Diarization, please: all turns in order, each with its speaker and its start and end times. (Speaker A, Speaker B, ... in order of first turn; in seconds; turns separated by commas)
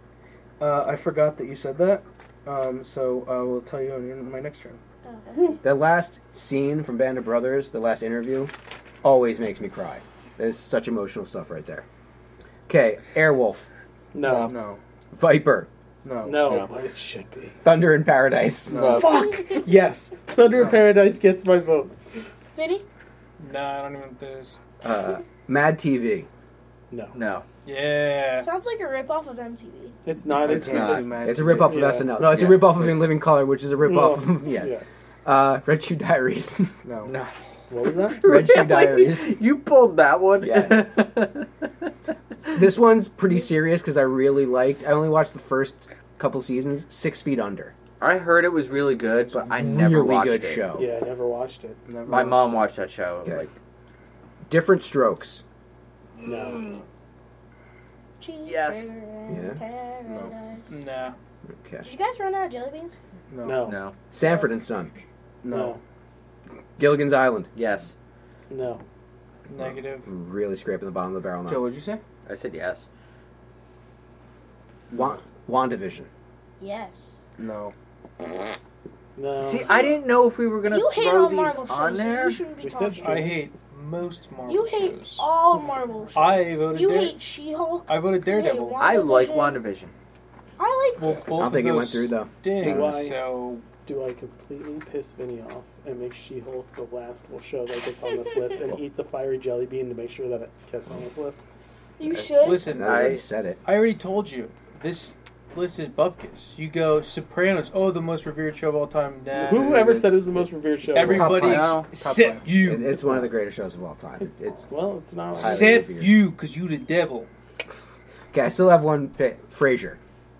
Speaker A: 0.6-4.8, Speaker B: 5.0-5.6, Speaker C: 5.6-11.8, Speaker C: 12.7-13.7, Speaker D: 14.1-14.5, Speaker A: 14.2-14.8, Speaker C: 15.1-15.7, Speaker A: 16.0-16.6, Speaker D: 16.2-17.6, Speaker C: 17.6-19.0, Speaker A: 18.7-19.2, Speaker E: 18.7-19.1, Speaker D: 18.9-21.9, Speaker B: 22.5-22.8, Speaker F: 23.4-24.6, Speaker C: 24.8-26.3, Speaker E: 27.1-27.4, Speaker F: 27.6-28.5, Speaker B: 28.4-29.9, Speaker D: 30.0-32.2, Speaker A: 30.3-31.9, Speaker E: 30.4-31.1, Speaker C: 31.2-34.7, Speaker E: 32.3-33.0, Speaker D: 33.8-34.8, Speaker C: 35.2-36.7, Speaker A: 36.8-37.1, Speaker E: 37.0-37.3, Speaker D: 37.7-38.2, Speaker E: 38.1-41.5, Speaker C: 38.2-39.4, Speaker C: 40.4-40.9, Speaker C: 42.5-47.7, Speaker E: 48.0-50.7, Speaker C: 49.3-50.9, Speaker D: 50.8-51.8, Speaker A: 51.9-52.7, Speaker E: 52.1-53.5, Speaker C: 54.5-55.4, Speaker D: 56.2-56.7, Speaker E: 56.3-56.8, Speaker B: 58.2-60.7, Speaker E: 58.4-58.9, Speaker C: 59.3-59.6, Speaker A: 60.0-60.3, Speaker F: 60.7-61.2, Speaker C: 61.5-61.9, Speaker B: 61.8-63.0, Speaker A: 63.3-63.7, Speaker D: 63.4-63.8, Speaker E: 63.6-64.0, Speaker C: 64.1-64.9, Speaker A: 65.4-65.8, Speaker D: 65.5-65.8, Speaker C: 66.8-67.5, Speaker E: 67.5-67.9, Speaker D: 68.5-68.8, Speaker F: 69.5-70.1, Speaker C: 70.0-71.6, Speaker A: 71.5-72.0, Speaker E: 72.2-72.9, Speaker C: 74.9-76.1, Speaker B: 76.6-77.2, Speaker A: 77.4-77.7, Speaker D: 79.2-79.7, Speaker E: 79.4-82.4, Speaker B: 79.6-80.0, Speaker B: 80.6-83.3, Speaker D: 82.6-83.5, Speaker F: 83.0-85.3, Speaker B: 84.5-89.6, Speaker F: 86.2-87.2, Speaker F: 87.9-88.9, Speaker E: 88.8-89.9, Speaker B: 90.6-91.2, Speaker F: 91.0-93.6, Speaker C: 91.2-92.9, Speaker D: 92.6-93.2, Speaker D: 93.8-101.4, Speaker B: 98.1-98.5, Speaker B: 102.0-102.7, Speaker E: 102.2-103.2, Speaker F: 102.4-109.9, Speaker C: 102.6-103.6, Speaker C: 109.4-110.6, Speaker D: 109.5-111.6, Speaker F: 110.9-113.1, Speaker A: 111.0-112.5, Speaker E: 111.4-111.9, Speaker C: 112.5-114.7, Speaker D: 114.6-115.7, Speaker C: 115.3-116.2, Speaker F: 115.4-117.3, Speaker C: 118.3-120.0